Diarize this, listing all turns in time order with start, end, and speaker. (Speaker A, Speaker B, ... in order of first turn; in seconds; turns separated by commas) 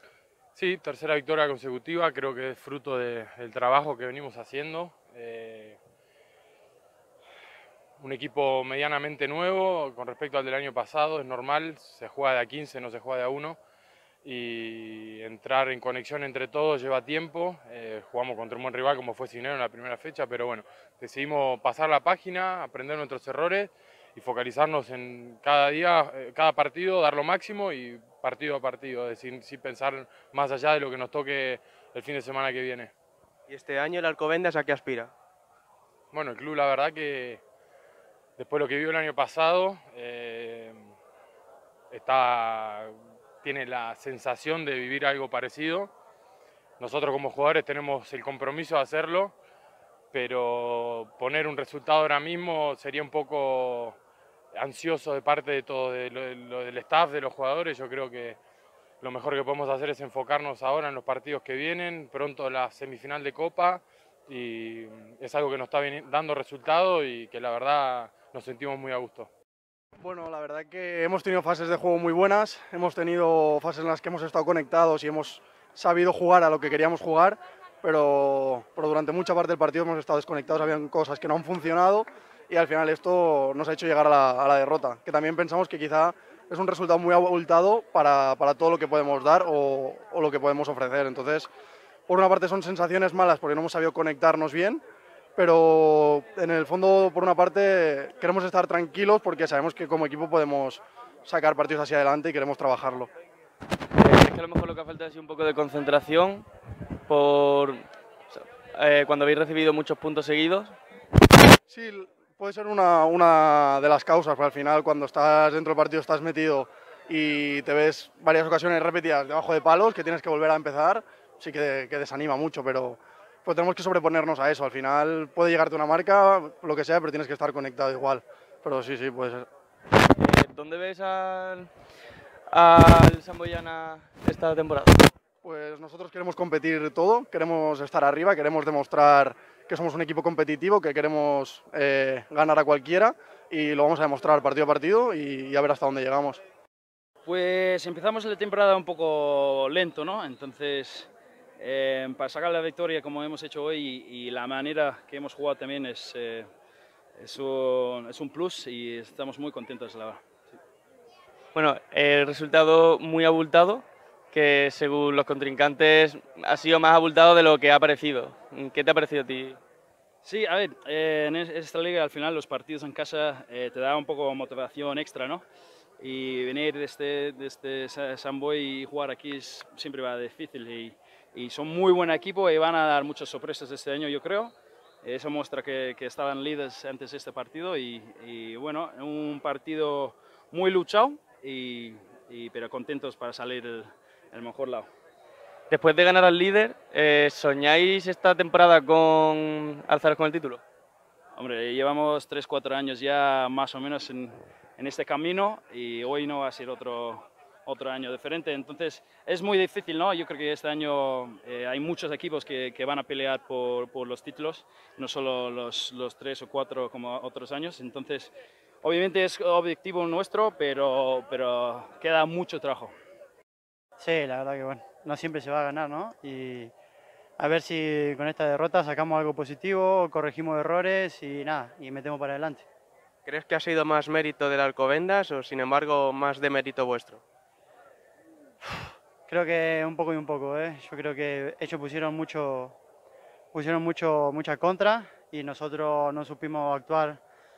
Speaker A: 0.6-5.8, Speaker A: 8.0-13.6, Speaker A: 14.2-32.9, Speaker B: 33.5-35.1, Speaker A: 36.1-37.4, Speaker A: 38.4-40.9, Speaker A: 41.9-45.9, Speaker A: 46.8-49.3, Speaker A: 50.1-54.0, Speaker A: 54.5-58.4, Speaker A: 59.0-69.3, Speaker C: 70.0-91.5, Speaker C: 92.1-94.8, Speaker C: 95.3-103.1, Speaker D: 104.0-106.4, Speaker D: 107.1-107.8, Speaker D: 108.3-110.7, Speaker C: 111.7-129.5, Speaker D: 130.2-131.7, Speaker D: 132.5-135.0, Speaker C: 135.4-146.4, Speaker E: 147.2-156.5, Speaker E: 157.2-160.5, Speaker D: 161.5-169.6, Speaker E: 170.2-175.4, Speaker E: 176.0-194.9, Speaker D: 195.7-200.6, Speaker E: 201.3-222.9, Speaker F: 224.0-226.7, Speaker F: 227.4-232.7, Speaker B: 233.2-237.2, Speaker F: 239.2-242.8, Speaker F: 243.5-247.2